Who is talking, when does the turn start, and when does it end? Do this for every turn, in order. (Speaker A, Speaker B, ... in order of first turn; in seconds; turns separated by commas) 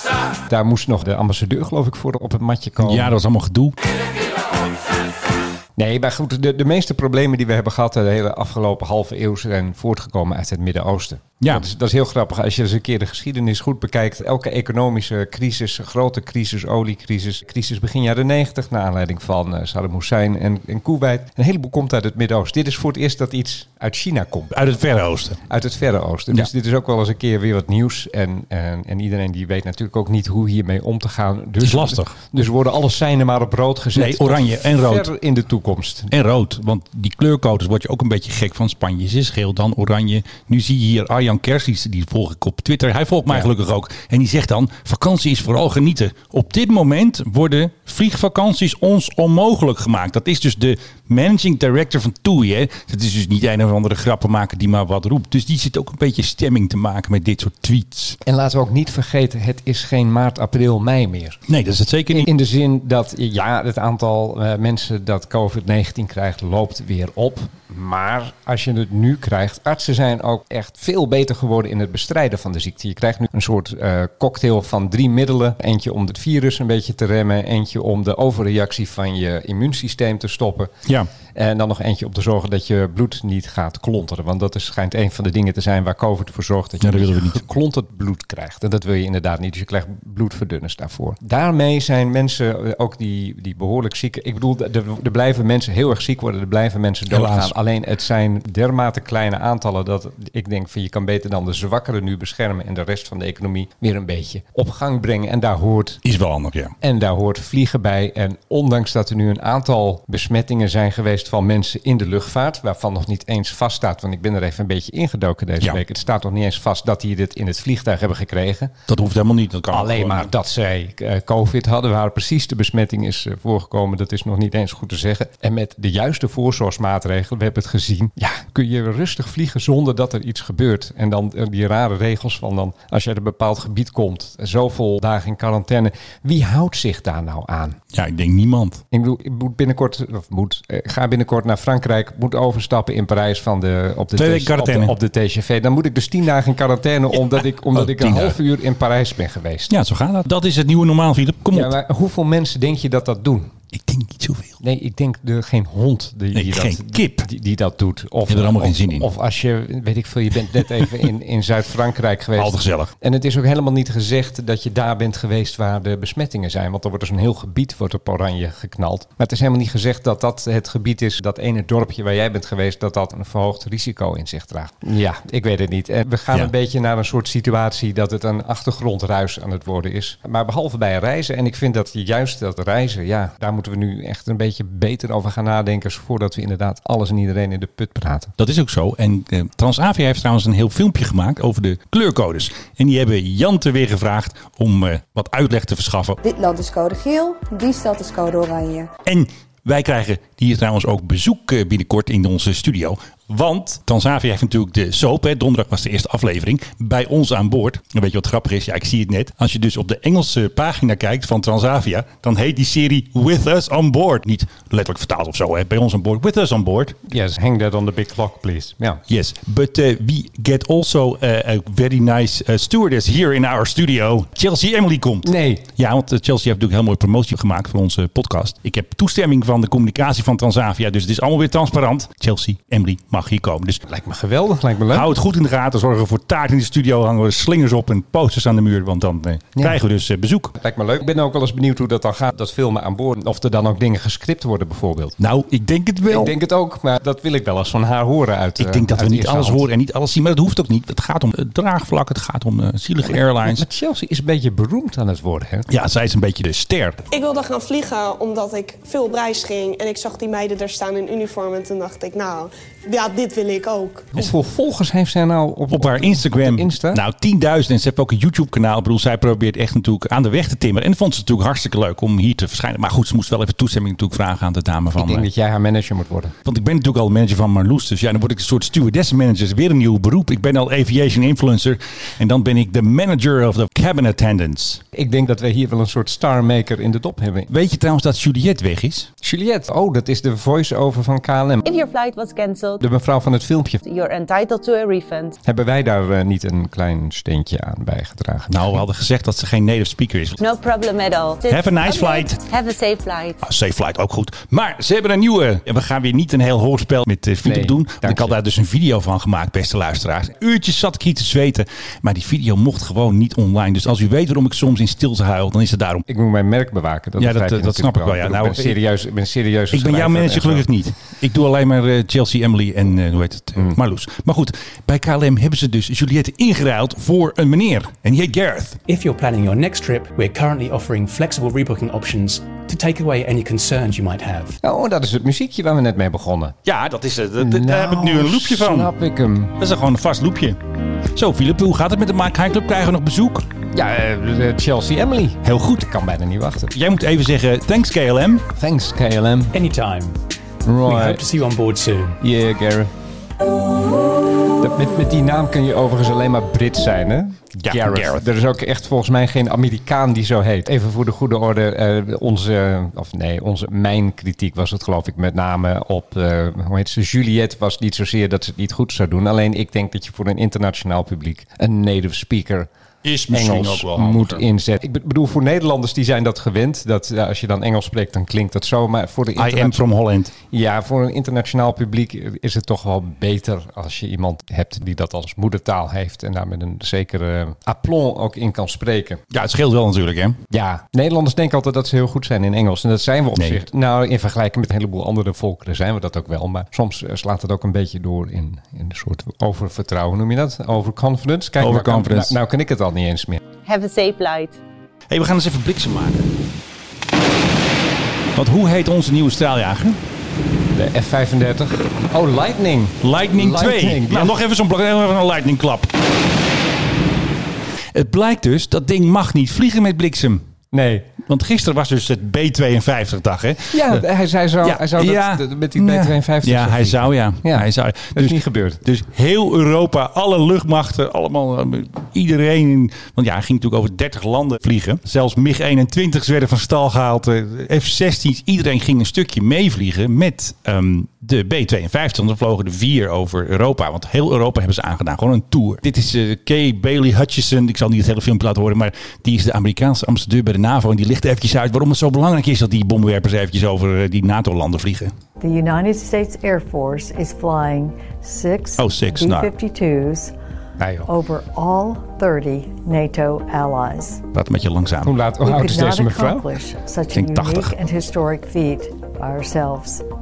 Speaker A: 0.4-3.1, Speaker B: 2.8-3.8, Speaker A: 5.8-24.6, Speaker B: 24.5-25.4, Speaker A: 25.5-36.1, Speaker B: 31.6-32.1, Speaker B: 34.0-35.1, Speaker B: 36.1-58.2, Speaker A: 58.2-61.4, Speaker B: 61.5-62.3, Speaker A: 62.1-80.7, Speaker A: 81.3-106.0, Speaker B: 86.8-87.4, Speaker B: 97.1-97.5, Speaker B: 106.0-106.7, Speaker A: 106.8-118.7, Speaker B: 118.9-120.3, Speaker A: 119.7-137.8, Speaker B: 137.9-138.8, Speaker A: 138.9-149.7, Speaker B: 144.2-144.9, Speaker B: 147.7-148.4, Speaker B: 149.7-151.7, Speaker A: 151.5-153.5, Speaker B: 153.7-154.6, Speaker A: 154.6-188.3, Speaker B: 156.3-157.3, Speaker B: 158.3-159.1, Speaker B: 162.4-162.9, Speaker B: 188.4-196.2, Speaker C: 196.2-198.9, Speaker B: 199.1-217.0, Speaker A: 217.1-219.0, Speaker B: 219.1-233.8, Speaker A: 225.2-225.7, Speaker A: 233.9-235.1, Speaker B: 234.9-240.6, Speaker A: 240.6-245.2, Speaker B: 245.2-246.3, Speaker A: 246.1-249.7, Speaker B: 248.6-253.7, Speaker A: 253.1-255.7, Speaker B: 255.7-257.0, Speaker D: 257.1-264.1, Speaker A: 264.1-267.0, Speaker B: 265.7-275.3, Speaker A: 274.9-276.4, Speaker B: 276.4-284.8, Speaker A: 284.9-287.5, Speaker B: 287.5-289.1, Speaker A: 289.2-291.7, Speaker E: 291.6-292.8, Speaker A: 292.8-293.8, Speaker E: 293.8-295.4, Speaker A: 295.4-298.8, Speaker B: 298.5-300.4, Speaker E: 300.4-303.4, Speaker B: 301.5-302.4, Speaker B: 303.4-316.1, Speaker A: 307.4-308.4, Speaker A: 316.1-320.7, Speaker B: 317.2-318.8, Speaker B: 319.7-328.8, Speaker F: 328.9-334.6, Speaker A: 334.6-336.6, Speaker B: 336.6-338.9, Speaker A: 337.4-339.6, Speaker B: 339.6-340.6, Speaker B: 341.1-343.4, Speaker A: 343.7-346.7, Speaker B: 345.4-345.9, Speaker B: 346.7-348.5, Speaker A: 348.6-349.5, Speaker F: 349.5-350.1, Speaker A: 350.6-351.2, Speaker F: 350.9-352.2, Speaker A: 352.2-352.9, Speaker A: 354.6-372.7, Speaker B: 357.6-358.2, Speaker B: 373.0-374.4, Speaker A: 373.3-379.9, Speaker B: 379.4-380.3, Speaker A: 380.5-389.2, Speaker B: 389.3-390.4, Speaker A: 390.5-403.4, Speaker B: 393.4-393.6, Speaker B: 401.6-402.4, Speaker E: 403.6-404.6, Speaker B: 405.1-406.3, Speaker B: 408.4-410.0, Speaker A: 410.7-414.4, Speaker B: 413.0-415.9, Speaker B: 417.9-420.4, Speaker A: 420.7-421.1, Speaker B: 421.3-424.0, Speaker A: 423.7-428.8, Speaker B: 424.6-455.1, Speaker G: 455.4-460.3, Speaker B: 458.8-459.5, Speaker A: 460.8-461.1, Speaker G: 461.1-464.2, Speaker B: 464.3-465.2, Speaker A: 465.0-466.5, Speaker G: 465.4-470.0, Speaker B: 467.1-467.7